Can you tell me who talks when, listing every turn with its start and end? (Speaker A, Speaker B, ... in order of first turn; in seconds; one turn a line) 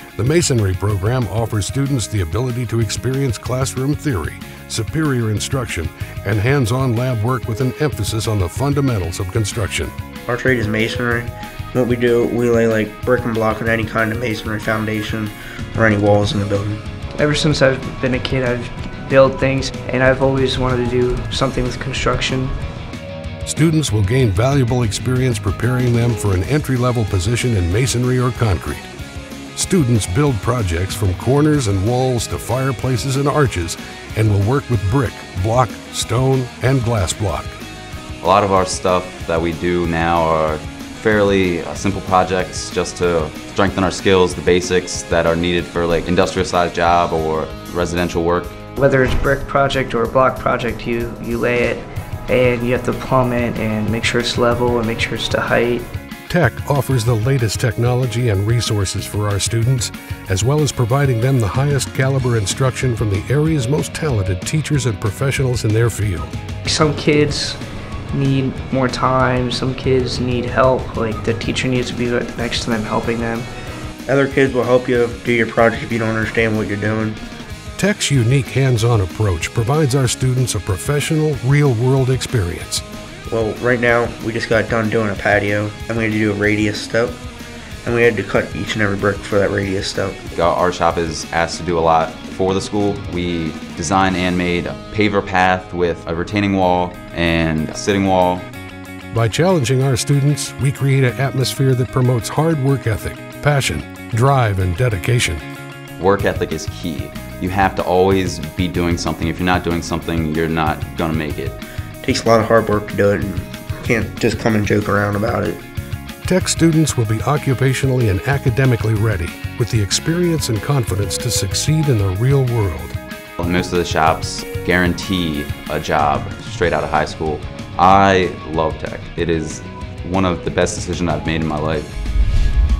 Speaker A: 0.1-9.9
Speaker B: 10.3-16.8
Speaker C: 17.2-22.5
Speaker A: 23.4-28.9
Speaker A: 29.5-37.5
Speaker D: 38.2-48.6
Speaker C: 48.8-55.8
Speaker A: 56.3-66.3
Speaker C: 66.6-67.6
Speaker C: 68.1-73.5
Speaker B: 74.1-77.2
Speaker A: 77.8-82.8
Speaker B: 83.3-87.2
Speaker B: 87.8-90.2
Speaker D: 90.3-98.5
Speaker A: 99.1-105.4
Speaker D: 106.0-111.6
Speaker B: 112.0-115.6
Speaker A: 116.2-123.0
Speaker D: 123.4-131.9